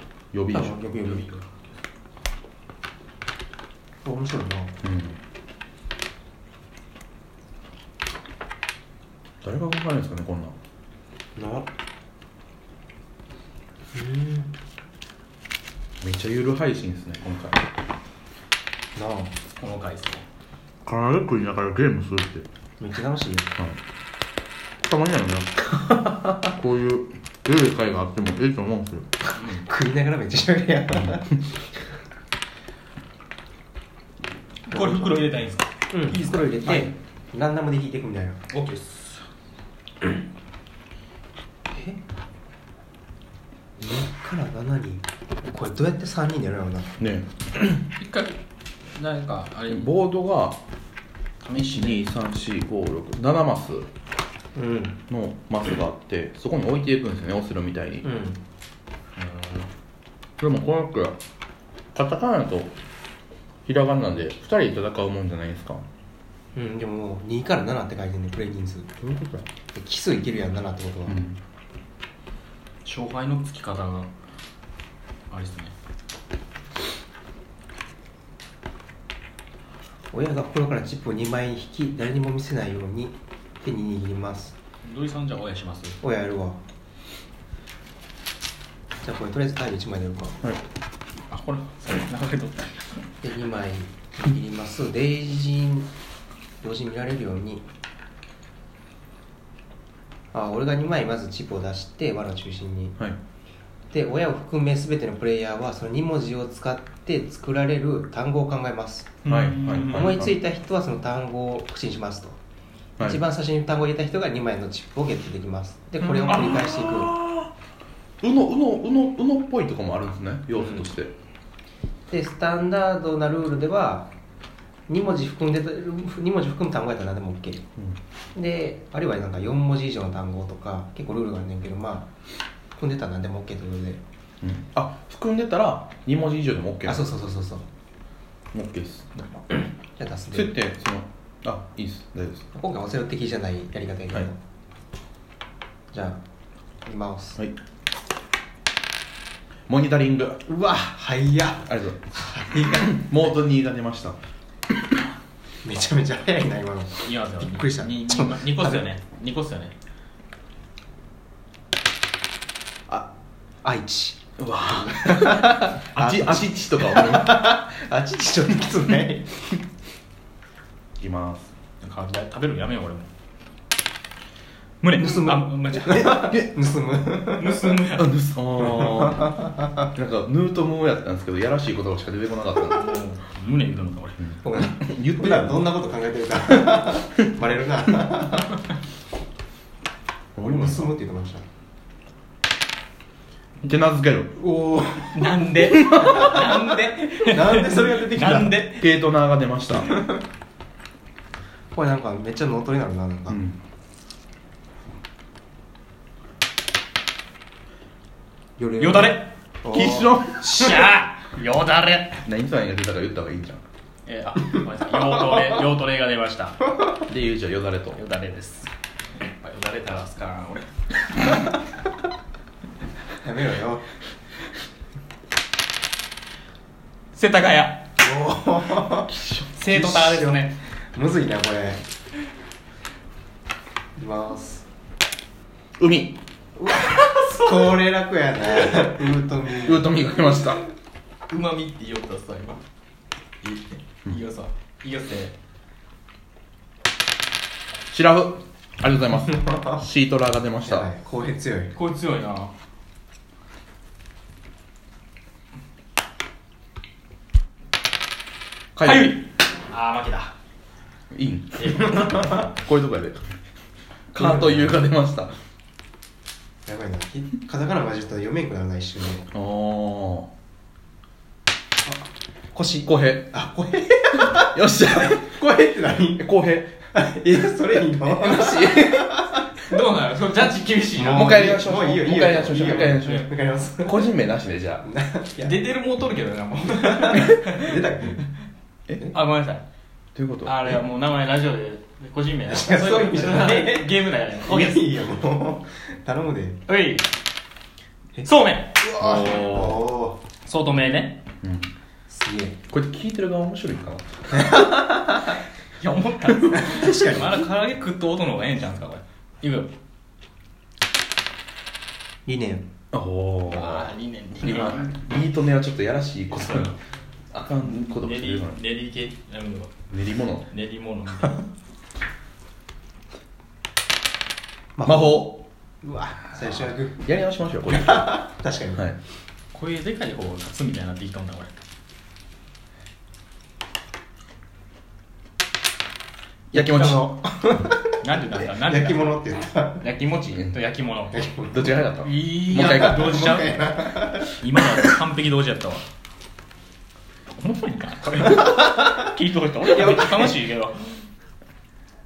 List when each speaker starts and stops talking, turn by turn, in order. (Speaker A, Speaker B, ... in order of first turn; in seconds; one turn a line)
Speaker A: 0.3-1.2
Speaker B: 0.5-1.3
Speaker B: 4.0-4.7
Speaker A: 4.8-5.2
Speaker A: 9.4-10.5
Speaker B: 11.3-11.7
Speaker B: 13.9-14.5
Speaker A: 16.0-17.6
Speaker B: 18.9-19.4
Speaker C: 19.5-20.2
Speaker A: 20.8-22.5
Speaker B: 22.8-23.5
Speaker A: 24.8-29.1
Speaker B: 29.2-31.6
Speaker C: 29.4-29.6
Speaker A: 31.0-31.2
Speaker C: 34.7-36.8
Speaker B: 34.7-35.2
Speaker B: 35.9-38.4
Speaker C: 38.5-39.2
Speaker B: 43.8-47.0
Speaker A: 47.0-47.3
Speaker C: 47.7-48.4
Speaker C: 48.9-49.9
Speaker A: 49.7-50.6
Speaker C: 51.4-52.0
Speaker A: 51.6-53.9
Speaker B: 54.5-55.0
Speaker A: 55.1-58.0
Speaker B: 58.0-58.4
Speaker C: 59.2-59.6
Speaker A: 60.4-61.2
Speaker A: 61.9-62.7
Speaker A: 63.6-65.8
Speaker B: 66.5-69.0
Speaker A: 69.0-69.5
Speaker B: 69.7-71.2
Speaker A: 71.1-71.4
Speaker C: 72.8-74.1
Speaker C: 75.3-75.7
Speaker B: 80.1-84.5
Speaker C: 84.8-86.0
Speaker B: 86.0-86.6
Speaker B: 89.0-90.4
Speaker C: 91.3-93.1
Speaker B: 93.2-95.9
Speaker B: 96.6-97.6
Speaker B: 100.3-103.0
Speaker B: 103.9-109.1
Speaker C: 109.2-110.1
Speaker A: 109.2-110.3
Speaker B: 109.7-112.4
Speaker B: 113.0-117.1
Speaker A: 116.0-117.5
Speaker A: 118.2-121.1
Speaker B: 122.1-124.1
Speaker B: 124.9-127.6
Speaker B: 128.3-132.1
Speaker B: 132.8-134.0
Speaker A: 134.4-137.1
Speaker B: 136.8-137.6
Speaker A: 138.5-139.2
Speaker B: 140.0-140.5
Speaker A: 140.3-142.4
Speaker B: 142.5-144.4
Speaker B: 145.9-146.2
Speaker B: 146.8-147.4
Speaker A: 149.7-150.4
Speaker B: 150.4-153.1
Speaker A: 151.6-152.0
Speaker A: 152.8-154.2
Speaker B: 155.6-158.8
Speaker C: 157.0-159.7
Speaker B: 163.6-164.2
Speaker A: 164.4-167.6
Speaker B: 164.7-169.4
Speaker A: 171.0-171.5
Speaker C: 171.8-173.1
Speaker C: 174.8-176.3
Speaker B: 175.0-177.9
Speaker A: 175.9-176.5
Speaker C: 177.4-178.2
Speaker A: 177.9-182.9
Speaker B: 178.6-179.9
Speaker C: 182.7-184.2
Speaker A: 184.2-185.6
Speaker B: 184.4-188.6
Speaker A: 190.3-190.9
Speaker B: 190.4-191.4
Speaker A: 193.6-194.4
Speaker B: 194.3-196.3
Speaker C: 195.1-198.9
Speaker A: 196.0-196.3
Speaker B: 197.2-198.6
Speaker A: 198.7-200.0
Speaker B: 201.7-203.4
Speaker A: 203.3-203.6
Speaker B: 208.6-210.2
Speaker C: 208.8-209.3
Speaker A: 209.7-210.9
Speaker C: 210.3-212.2
Speaker A: 212.2-213.6
Speaker C: 214.1-216.8
Speaker A: 217.1-218.0
Speaker C: 217.9-221.3
Speaker B: 223.2-223.8
Speaker C: 227.1-227.8
Speaker B: 228.0-230.1
Speaker A: 229.1-230.3
Speaker C: 229.6-230.5
Speaker B: 230.9-231.8
Speaker B: 234.0-234.6
Speaker A: 235.8-236.2
Speaker B: 236.6-239.9
Speaker C: 236.8-237.8
Speaker C: 238.5-238.9
Speaker A: 239.6-240.6
Speaker C: 241.3-242.6
Speaker C: 243.4-245.3
Speaker A: 247.9-250.9
Speaker B: 249.5-249.7
Speaker B: 250.6-251.7
Speaker C: 251.7-252.5
Speaker A: 258.8-259.2
Speaker C: 258.8-260.3
Speaker A: 261.1-263.2
Speaker C: 261.6-262.1
Speaker A: 264.1-265.3
Speaker B: 264.2-264.7
Speaker B: 266.6-269.3
Speaker A: 269.3-270.3
Speaker B: 271.8-276.3
Speaker A: 272.8-273.3
Speaker A: 274.2-275.2
Speaker A: 276.2-276.8
Speaker B: 276.9-279.4
Speaker A: 278.1-279.2
Speaker C: 279.6-281.2
Speaker B: 280.9-284.1
Speaker A: 281.1-284.8
Speaker C: 282.5-283.3
Speaker B: 284.8-285.7
Speaker C: 285.4-287.8
Speaker B: 286.8-288.2
Speaker C: 289.0-289.6
Speaker A: 290.1-290.8
Speaker C: 290.4-294.9
Speaker B: 292.5-296.6
Speaker C: 296.7-297.1
Speaker B: 298.1-300.2
Speaker C: 298.2-298.8
Speaker A: 298.9-299.9
Speaker C: 300.4-301.2
Speaker A: 301.4-301.7
Speaker B: 302.1-302.6
Speaker A: 302.7-304.6
Speaker B: 304.3-305.3
Speaker C: 305.8-309.7
Speaker B: 306.4-307.4
Speaker B: 312.2-312.6
Speaker A: 312.9-316.7
Speaker C: 313.5-315.0
Speaker C: 316.3-316.8
Speaker A: 317.3-318.6
Speaker C: 318.0-319.7
Speaker A: 319.9-320.5
Speaker C: 320.5-321.5
Speaker B: 324.8-327.0
Speaker A: 324.8-325.4
Speaker A: 327.0-328.2
Speaker B: 327.7-328.9
Speaker C: 329.5-331.5
Speaker B: 336.5-339.9
Speaker A: 336.5-337.1
Speaker C: 338.0-339.1
Speaker C: 339.8-341.2
Speaker B: 341.1-341.7
Speaker A: 341.5-343.4
Speaker C: 342.0-345.8
Speaker B: 342.5-344.9
Speaker C: 347.3-350.9
Speaker B: 349.7-350.4